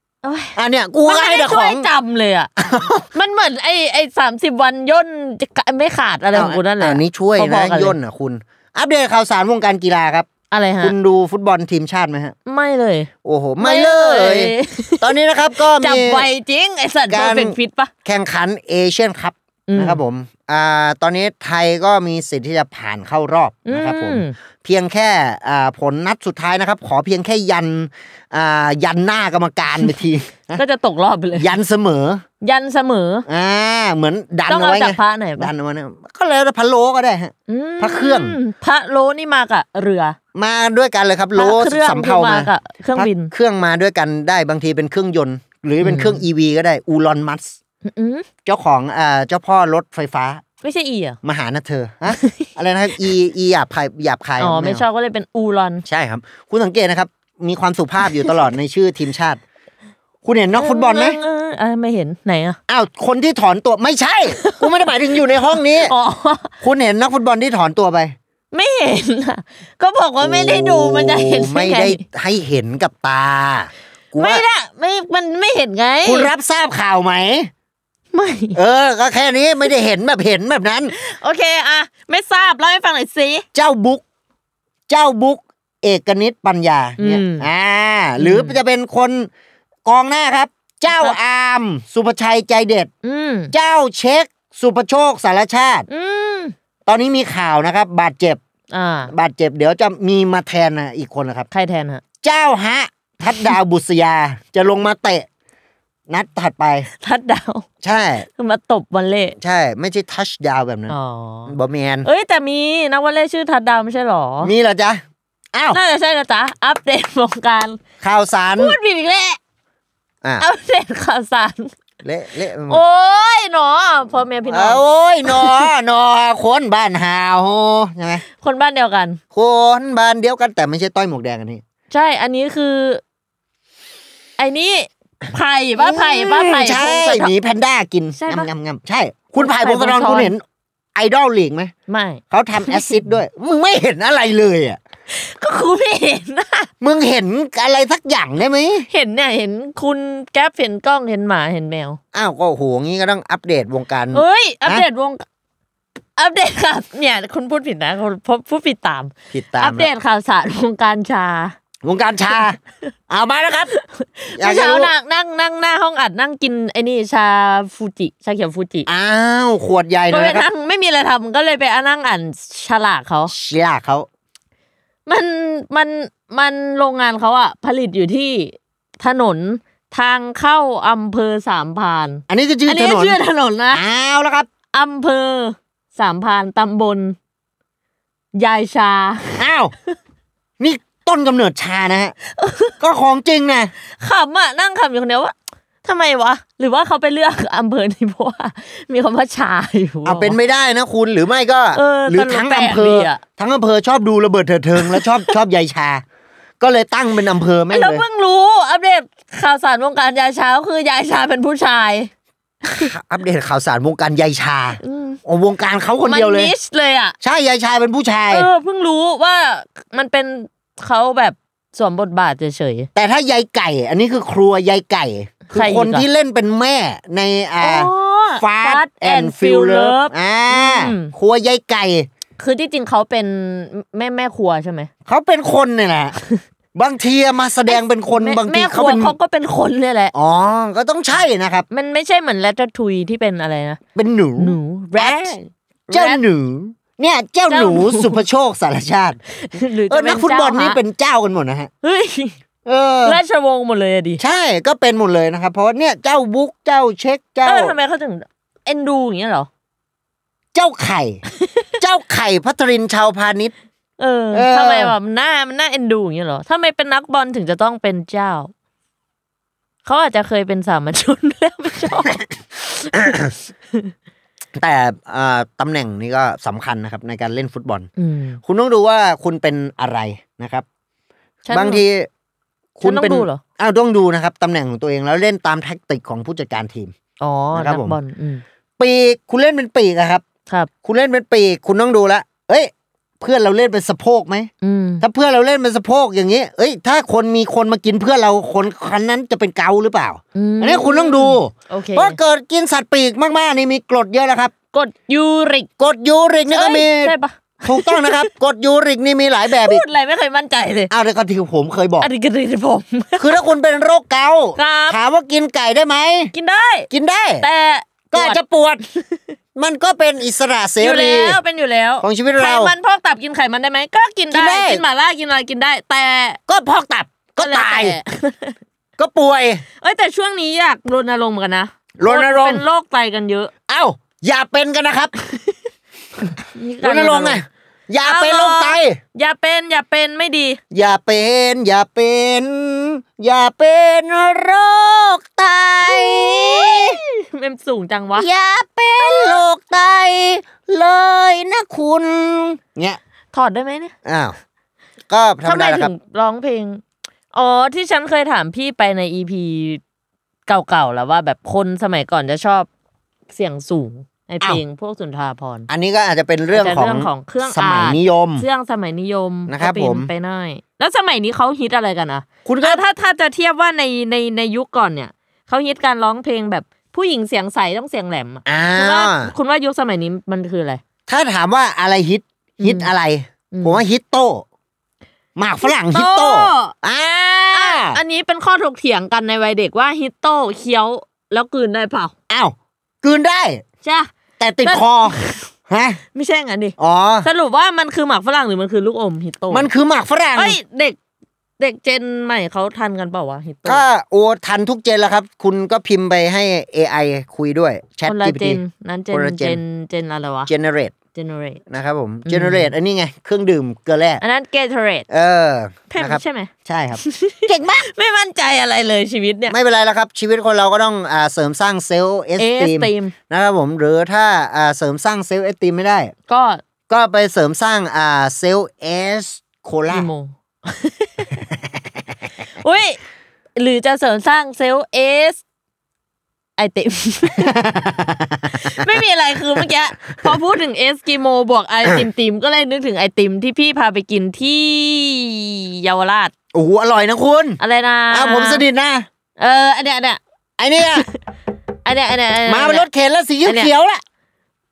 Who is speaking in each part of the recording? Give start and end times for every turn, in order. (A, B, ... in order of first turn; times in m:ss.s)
0:00.2-0:02.5 A
0:00.6-0:01.9 B
0:02.6-0:03.1 B
0:03.1-0:08.0 A
0:06.3-0:10.3 B
0:10.5-0:11.0 A
0:10.8-0:12.4 B
0:12.5-0:17.9 A
0:13.2-0:16.3 B
0:17.1-0:30.6 B
0:19.7-0:20.0 A
0:23.7-0:24.4 A
0:30.5-0:31.5 A
0:31.4-0:32.2 B
0:32.4-0:33.2 A
0:33.3-0:38.4 B
0:34.5-0:35.5 A
0:37.5-0:40.2 A
0:40.4-0:47.6 B
0:41.4-0:43.3 A
0:45.8-0:46.2 A
0:47.8-0:48.3 A
0:48.4-0:50.4 B
0:50.6-0:51.2 A
0:51.2-0:54.8 B
0:52.1-0:52.5 A
0:54.4-0:55.8 A
0:55.8-0:59.4 B
1:00.2-1:01.2 B
1:00.6-1:02.6 A
1:02.7-1:05.9 B
1:04.4-1:06.5 A
1:06.6-1:08.2 B
1:08.5-1:12.0 A
1:10.2-1:14.4 B
1:14.2-1:16.3 A
1:16.0-1:17.5 B
1:18.1-1:18.6 A
1:18.5-1:20.9 B
1:20.9-1:23.5 A
1:23.5-1:24.0 B
1:24.9-1:29.3 B
1:27.0-1:27.5 A
1:28.2-1:28.6 A
1:29.9-1:32.9 B
1:30.9-1:31.2 A
1:33.0-1:33.5 A
1:33.5-1:35.9 B
1:35.9-1:36.5 A
1:36.9-1:38.4 B
1:38.7-1:39.1 A
1:39.1-1:41.5 B
1:41.5-1:42.0 A
1:42.2-1:45.3 B
1:46.1-1:46.9 B
1:46.9-1:47.7 A
1:47.8-1:48.3 B
1:48.4-1:49.4 A
1:49.4-1:51.0 B
1:50.9-1:54.5 A
1:51.5-1:52.1 B
1:54.4-1:55.0 B
1:55.5-1:55.8 B
1:55.7-1:57.8 A
1:58.0-1:58.8 B
1:58.6-1:59.4 A
2:00.4-2:01.7 A
2:02.0-2:02.8 B
2:02.7-2:05.7 A
2:04.5-2:08.2 B
2:08.4-2:09.2 A
2:09.3-2:11.6 B
2:11.9-2:13.0 A
2:14.4-2:17.3 A
2:15.8-2:20.4 B
2:18.2-2:18.5 A
2:19.4-2:20.3 A
2:21.0-2:21.7 B
2:21.9-2:23.1 A
2:22.3-2:24.8 B
2:25.1-2:26.7 A
2:26.8-2:28.9 B
2:28.9-2:32.0 A
2:32.1-2:34.9 B
2:34.1-2:35.2 A
2:36.2-2:41.6 A
2:39.3-2:39.9 B
2:41.8-2:42.6 B
2:43.1-2:43.7 B
2:43.7-2:48.9 A
2:44.4-2:44.9 B
2:48.9-2:50.5 B
2:50.1-2:53.3 A
2:53.3-2:54.1 B
2:55.1-3:03.8 A
3:02.3-3:04.5 B
3:04.7-3:07.2 A
3:08.4-3:10.0 A
3:09.4-3:09.7 B
3:10.6-3:12.2 B
3:12.3-3:12.8 A
3:12.8-3:13.7 B
3:13.9-3:20.4 A
3:20.0-3:26.0 B
3:21.7-3:23.2 A
3:24.8-3:25.4 A
3:26.6-3:28.1 B
3:27.7-3:32.1 A
3:32.7-3:36.6 B
3:34.8-3:35.2 A
3:36.0-3:37.2 A
3:37.2-3:38.5 B
3:38.3-3:42.9 A
3:43.0-3:52.1 B
3:45.5-3:46.1 A
3:47.6-3:51.1 A
3:52.4-3:54.9 A
3:55.1-3:56.2 B
3:56.8-3:59.2 B
3:57.7-4:00.1 A
4:00.1-4:01.7 B
4:01.7-4:03.8 A
4:04.0-4:09.2 B
4:04.4-4:05.4 A
4:05.9-4:06.3 A
4:07.5-4:08.2 A
4:09.4-4:10.8 A
4:09.9-4:11.7 B
4:11.8-4:12.4 A
4:12.7-4:13.2 B
4:13.0-4:14.2 A
4:14.2-4:17.8 B
4:17.4-4:19.5 A
4:20.6-4:21.2 B
4:21.8-4:23.5 B
4:24.0-4:28.5 A
4:24.3-4:25.0 B
4:29.8-4:33.2 A
4:32.9-4:33.3 B
4:34.6-4:37.9 B
4:38.0-4:38.4 A
4:38.4-4:40.6 B
4:41.4-4:41.8 A
4:41.5-4:42.1 B
4:42.8-4:46.9 B
4:42.8-4:43.4 A
4:47.2-4:48.4 A
4:47.5-4:48.0 B
4:48.8-4:50.2 B
4:50.8-4:54.5 B
4:54.6-4:55.0 A
4:55.0-5:04.5 B
5:00.4-5:02.2 A
5:04.7-5:05.7 A
5:05.8-5:09.9 B
5:06.5-5:08.3 A
5:09.5-5:10.9 A
5:10.9-5:12.1 B
5:12.0-5:13.3 A
5:13.2-5:16.3 B
5:14.6-5:15.0 A
5:16.3-5:18.4 A
5:16.9-5:17.5 B
5:18.1-5:18.8 B
5:19.6-5:21.4 B
5:20.8-5:26.4 A
5:22.0-5:22.7 B
5:24.3-5:24.8 B
5:26.5-5:28.0 B
5:27.4-5:28.5 A
5:29.0-5:29.6 B
5:29.8-5:33.5 A
5:32.0-5:32.6 B
5:33.7-5:35.1 B
5:36.4-5:37.4 A
5:36.8-5:39.0 B
5:38.0-5:40.6 A
5:40.7-5:47.0 B
5:45.8-5:48.3 A
5:48.2-5:53.0 B
5:49.0-5:49.4 A
5:53.3-5:53.9 A
5:54.0-5:54.4 B
5:55.1-5:55.9 B
5:55.4-5:56.8 A
5:57.3-5:59.8 A
6:00.5-6:02.7 A
6:03.3-6:05.7 A
6:05.7-6:08.5 B
6:06.5-6:20.8 A
6:09.5-6:10.1 B
6:12.4-6:12.8 B
6:18.5-6:19.3 B
6:21.1-6:24.4 B
6:22.6-6:22.9 A
6:23.5-6:23.8 A
6:25.4-6:28.0 B
6:25.6-6:26.7 A
6:27.5-6:32.1 A
6:32.3-6:33.6 B
6:33.8-6:34.1 A
6:34.4-6:35.2 B
6:34.6-6:35.5 A
6:35.7-6:36.0 B
6:36.1-6:39.7 A
6:36.8-6:37.3 B
6:39.5-6:40.6 B
6:40.4-6:41.0 A
6:41.6-6:43.8 A
6:43.7-6:48.6 B
6:48.1-6:50.5 A
6:49.1-6:49.6 B
6:50.5-6:50.9 B
6:51.1-6:51.6 A
6:51.7-6:54.2 B
6:52.3-6:52.7 A
6:54.2-6:55.1 A
6:55.1-6:57.9 B
6:55.9-6:59.6 A
6:59.5-7:06.1 B
7:02.4-7:03.1 A
7:06.3-7:06.6 A
7:06.9-7:10.1 B
7:09.9-7:11.4 A
7:12.6-7:13.0 A
7:13.6-7:15.4 A
7:16.6-7:17.6 A
7:17.4-7:18.8 B
7:18.5-7:26.3 A
7:26.5-7:27.6 B
7:27.6-7:28.6 A
7:28.1-7:29.1 B
7:29.4-7:30.2 A
7:30.6-7:31.1 B
7:31.8-7:32.9 A
7:32.5-7:34.0 B
7:33.4-7:33.7 A